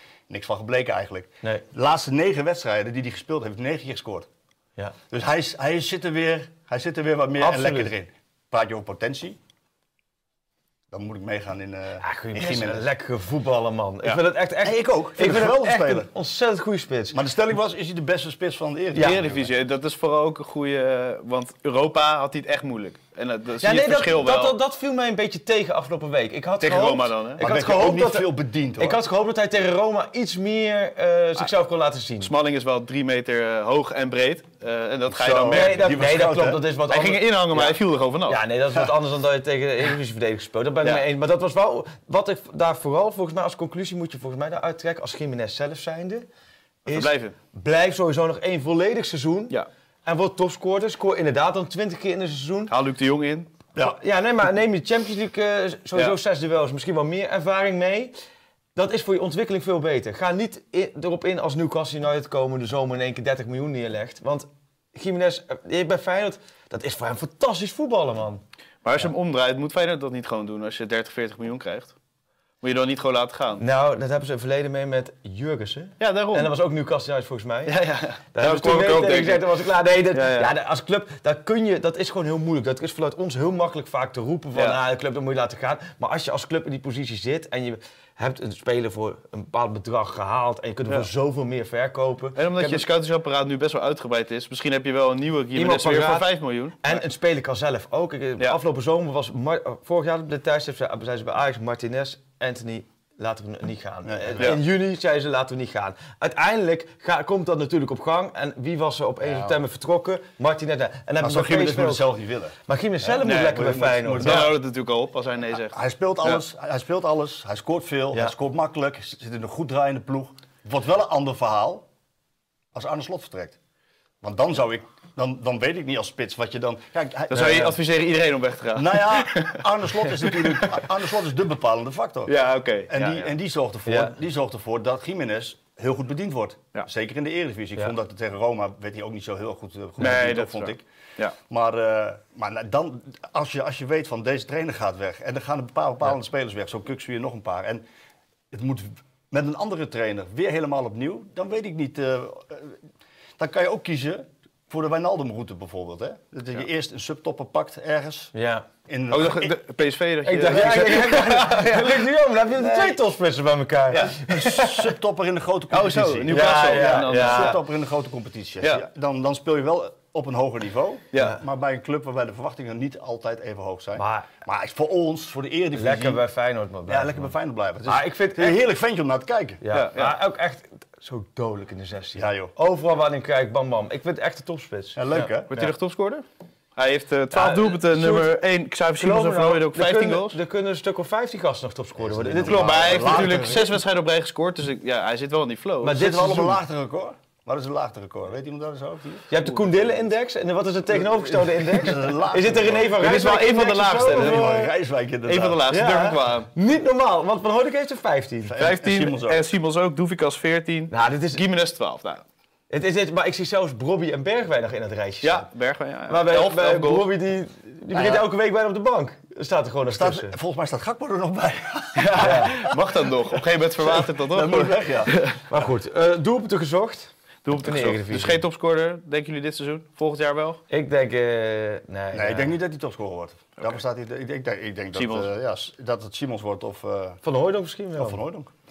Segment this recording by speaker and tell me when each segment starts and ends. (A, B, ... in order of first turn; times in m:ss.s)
0:00.3-0:04.3 A
0:05.1-0:09.4 A
0:07.4-0:07.9 B
0:10.9-0:12.9 A
0:12.0-0:17.2 B
0:14.6-0:16.1 A
0:17.1-0:19.5 A
0:18.9-0:19.2 B
0:18.9-0:24.5 C
0:23.6-0:32.3 B
0:26.6-0:27.4 C
0:27.4-0:29.0 A
0:32.2-0:35.9 C
0:35.1-0:36.6 A
0:35.5-0:46.3 B
0:36.9-0:38.4 C
0:46.9-0:52.7 B
0:46.9-0:47.4 C
0:52.7-0:53.5 C
0:53.8-0:58.1 B
0:58.7-1:08.4 B
1:08.8-1:11.9 C
1:12.6-1:13.6 C
1:13.6-1:17.8 B
1:16.0-1:16.5 C
1:17.7-1:19.5 C
1:18.3-1:32.8 B
1:20.1-1:20.5 C
1:24.5-1:24.8 C
1:32.4-1:37.0 C
1:35.5-1:36.3 B
1:36.8-1:52.1 B
1:44.0-1:44.6 A
1:49.2-1:49.6 A
1:51.2-1:54.5 A
1:52.6-1:54.5 B
1:53.2-1:56.4 C
1:55.7-2:01.9 A
2:02.7-2:03.6 A
2:04.2-2:07.7 A
2:07.3-2:09.7 C
2:07.4-2:07.7 B
2:08.7-2:12.4 A
2:10.2-2:10.8 C
2:12.2-2:13.3 C
2:12.9-2:20.8 A
2:13.9-2:14.2 B
2:20.0-2:21.4 C
2:21.4-2:27.8 A
2:28.5-2:32.8 A
2:33.4-2:38.3 A
2:38.3-2:38.7 B
2:38.9-2:39.5 A
2:39.1-2:42.1 C
2:40.2-2:44.9 B
2:42.6-2:43.0 A
2:44.0-2:56.2 A
2:45.7-2:47.6 C
2:46.3-2:47.6 B
2:51.1-2:51.4 C
2:54.0-2:54.3 B
2:55.7-2:57.3 B
2:56.9-2:59.6 A
2:57.8-2:58.6 B
2:59.6-3:05.7 B
2:59.7-3:00.2 C
3:02.1-3:02.5 A
3:04.9-3:05.5 A
3:05.5-3:06.2 C
3:06.8-3:10.4 C
3:07.3-3:08.4 B
3:09.0-3:13.4 B
3:12.0-3:13.8 A
3:12.4-3:16.0 C
3:15.8-3:16.6 B
3:15.9-3:19.4 A
3:19.3-3:24.5 B
3:20.9-3:23.0 A
3:23.0-3:24.7 C
3:24.1-3:25.7 A
3:25.3-3:26.5 C
3:25.7-3:28.6 B
3:28.4-3:29.4 A
3:28.6-3:32.2 C
3:30.9-3:31.4 B
3:32.7-3:35.5 B
3:35.2-3:37.1 C
3:36.1-3:40.3 B
3:37.9-3:38.3 A
3:39.9-3:45.1 A
3:42.0-3:45.4 C
3:42.1-3:42.6 B
3:45.4-3:48.4 B
3:47.4-3:50.6 C
3:50.7-3:52.6 B
3:52.1-3:57.2 A
3:54.9-3:55.3 C
3:57.2-3:58.2 B
3:58.0-3:58.5 A